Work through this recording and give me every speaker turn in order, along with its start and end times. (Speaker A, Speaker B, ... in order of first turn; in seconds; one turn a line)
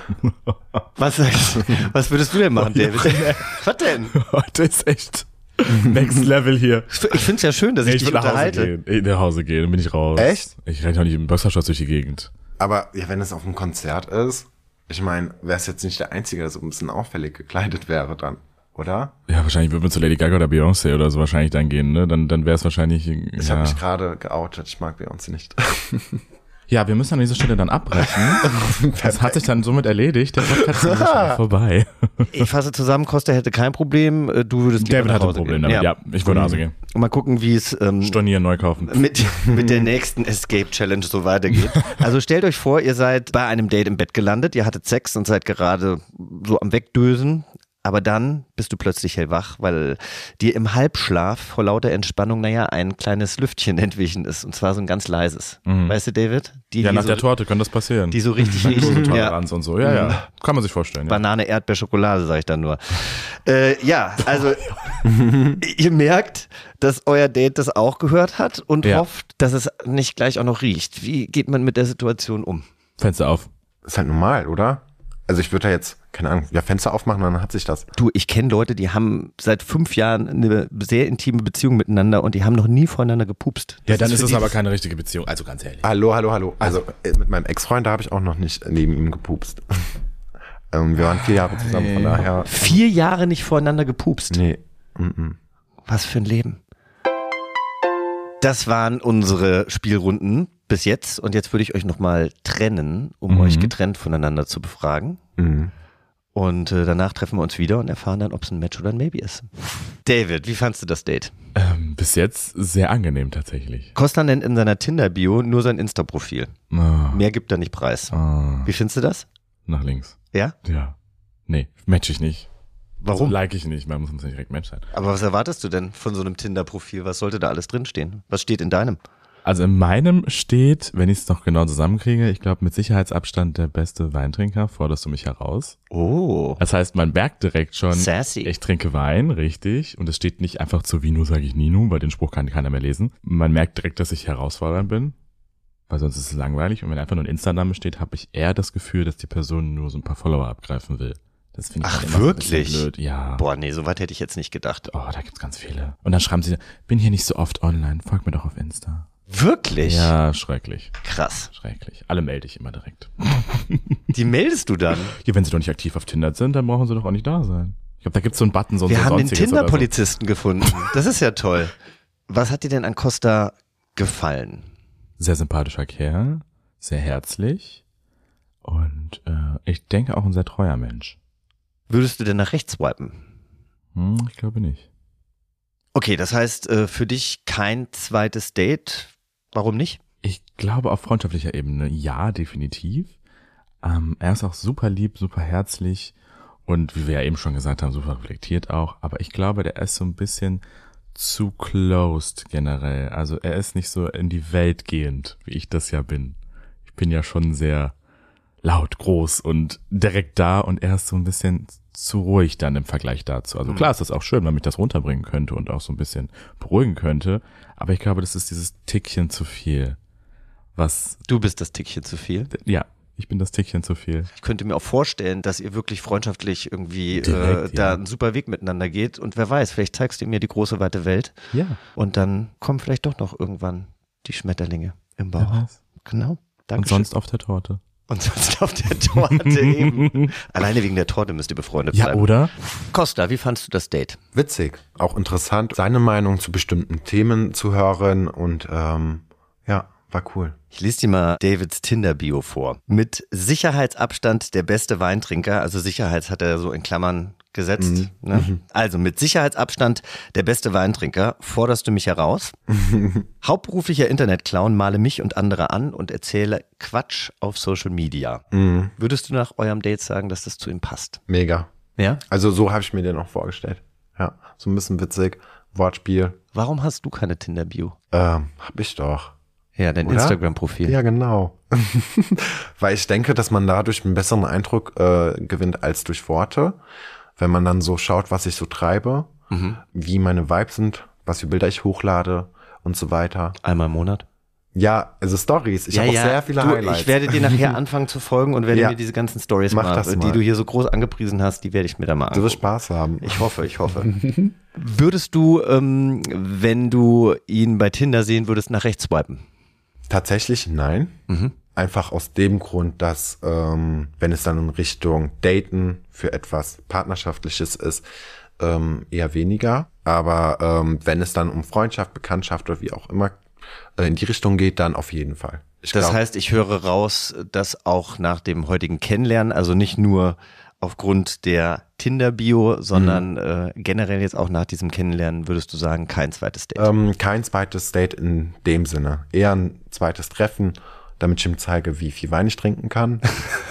Speaker A: 0.2-0.8
Speaker B: 1.0-4.1
Speaker A: 2.5-3.6
Speaker A: 4.1-7.3
Speaker B: 6.9-8.7
Speaker A: 7.8-12.3
Speaker C: 10.2-10.5
Speaker C: 12.6-19.1
Speaker A: 19.3-23.8
Speaker C: 23.4-26.2
Speaker A: 26.7-32.5
Speaker C: 28.4-29.5
Speaker C: 30.4-31.4
Speaker B: 32.3-35.9
Speaker A: 34.8-36.7
Speaker C: 36.2-36.6
Speaker B: 36.9-38.2
Speaker A: 38.0-39.0
Speaker B: 38.8-57.3
Speaker C: 39.5-39.9
Speaker A: 55.6-56.0
Speaker A: 56.8-61.2
Speaker B: 58.1-60.2
Speaker C: 58.7-59.1
Speaker B: 61.1-64.8
Speaker C: 65.0-65.6
Speaker B: 65.6-72.7
Speaker A: 73.0-73.5
Speaker C: 73.8-77.9
Speaker B: 77.9-84.5
Speaker A: 83.9-85.8
Speaker C: 85.8-89.9
Speaker C: 90.7-92.5
Speaker A: 91.6-92.2
Speaker B: 92.4-94.4
Speaker C: 94.3-95.4
Speaker B: 95.9-96.6
Speaker B: 98.4-105.2
Speaker A: 103.3-103.7
Speaker C: 105.4-105.7
Speaker B: 106.3-111.3
Speaker A: 111.6-113.9
Speaker B: 113.9-116.5
Speaker A: 116.7-117.2
Speaker B: 117.1-118.1
Speaker A: 118.1-118.7
Speaker B: 118.6-119.3
Speaker A: 119.7-120.9
Speaker A: 121.5-122.5
Speaker B: 123.0-123.4
Speaker A: 123.1-124.9
Speaker B: 124.9-129.0
Speaker A: 129.4-135.8
Speaker B: 135.9-136.6
Speaker A: 136.6-145.1
Speaker B: 137.9-138.5
Speaker A: 145.9-153.4
Speaker B: 151.8-154.9
Speaker A: 154.9-159.1
Speaker B: 159.3-160.1
Speaker A: 159.8-161.0
Speaker B: 161.0-161.5
Speaker A: 161.5-164.0
Speaker B: 164.1-165.1
Speaker A: 165.1-169.9
Speaker B: 168.9-171.7
Speaker B: 172.3-174.6
Speaker A: 175.2-177.8
Speaker A: 178.6-181.2
Speaker B: 181.9-183.2
Speaker A: 183.9-184.9
Speaker B: 185.9-190.0
Speaker A: 190.2-193.1
Speaker A: 193.8-196.1
Speaker A: 196.7-200.6
Speaker A: 201.1-206.4
Speaker A: 206.9-207.9
Speaker A: 208.6-220.0
Speaker B: 213.7-213.9
Speaker A: 220.8-221.2
Speaker B: 221.3-222.5
Speaker A: 222.5-224.3
Speaker B: 224.4-231.4
Speaker A: 227.2-228.0
Speaker A: 231.5-231.8
Speaker B: 231.9-237.1
Speaker A: 235.4-235.7
Speaker A: 236.8-237.8
Speaker B: 238.1-244.2
Speaker A: 239.5-240.3
Speaker A: 241.9-242.5
Speaker C: 244.3-250.6
Speaker B: 250.7-262.6
Speaker C: 257.8-258.6
Speaker C: 262.7-263.2
Speaker B: 263.4-268.4
Speaker C: 268.5-268.9
Speaker B: 269.0-271.2
Speaker C: 271.3-271.7
Speaker C: 272.2-276.4
Speaker B: 276.5-277.9
Speaker C: 278.1-279.4
Speaker B: 279.8-280.9
Speaker C: 280.0-286.8
Speaker C: 287.4-289.3
Speaker B: 289.5-289.8
Speaker C: 289.9-293.6
Speaker B: 293.6-294.2
Speaker C: 294.7-297.6
Speaker B: 295.9-302.6
Speaker C: 298.7-299.0
Speaker C: 299.7-300.4
Speaker C: 302.3-303.4
Speaker B: 303.2-304.1
Speaker C: 304.0-304.5
Speaker B: 304.7-309.4
Speaker C: 310.1-311.2
Speaker B: 311.3-311.6
Speaker C: 311.7-318.1
Speaker C: 318.6-323.4
Speaker C: 324.0-326.2
Speaker B: 325.9-336.9
Speaker C: 332.9-333.2
Speaker C: 336.8-343.2